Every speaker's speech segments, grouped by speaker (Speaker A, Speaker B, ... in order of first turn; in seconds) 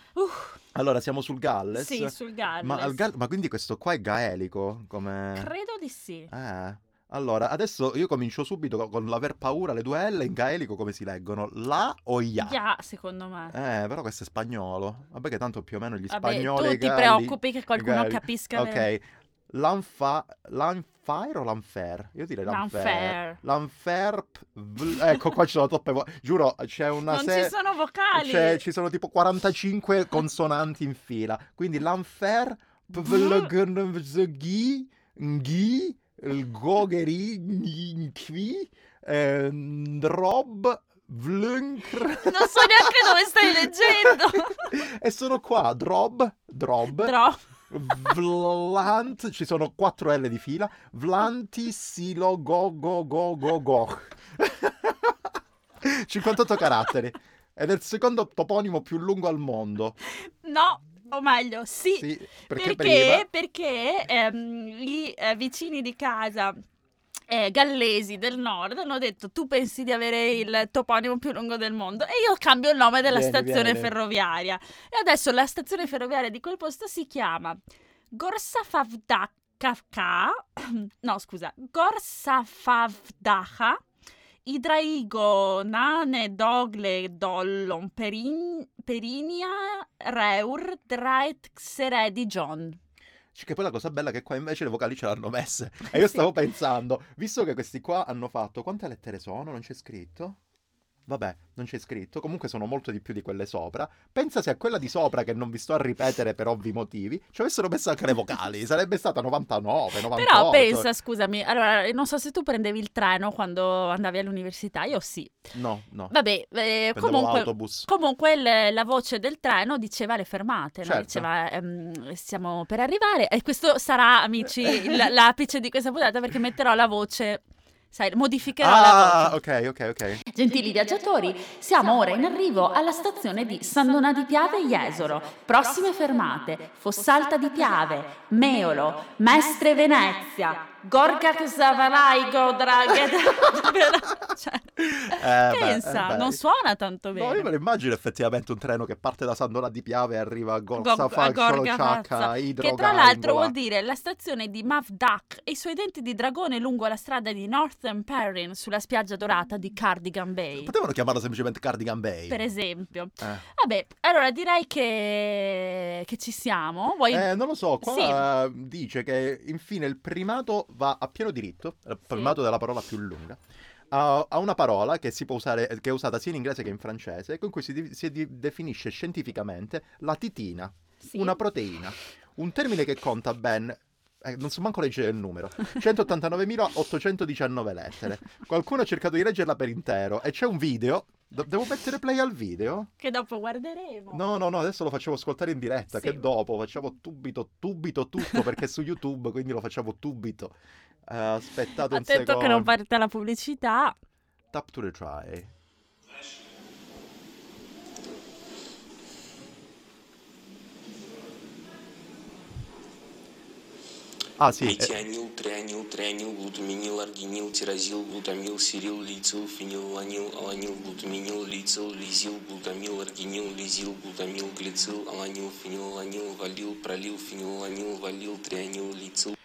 Speaker A: 0.1-0.6, 1.7-3.0, 5.4-6.3, 12.4-13.6, 16.1-18.9, 22.5-23.4, 27.1-28.6, 33.0-33.5, 42.2-44.8, 46.9-47.4, 60.2-66.6, 67.3-77.6, 78.1-83.8, 84.5-92.8, 110.1-115.5, 116.1-129.4, 130.3-147.5, 150.8-160.7, 162.3-167.3, 167.8-168.2, 181.0-181.4, 193.0-194.2, 195.9-196.2, 201.9-203.9
Speaker B: 0.8-5.5, 6.3-12.6, 13.5-27.6, 28.1-47.1, 47.7-60.0, 62.0-63.3, 73.1-73.9, 93.3-100.4, 101.1-110.9, 115.5-116.1, 117.0-117.9, 120.8-121.3, 124.6-125.0, 128.6-130.2, 144.8-146.4, 147.1-153.6, 160.6-162.4, 163.2-163.4, 167.1-173.4, 173.9-192.9, 194.1-202.7, 204.5-205.5, 214.4-215.0
Speaker C: 214.6-229.4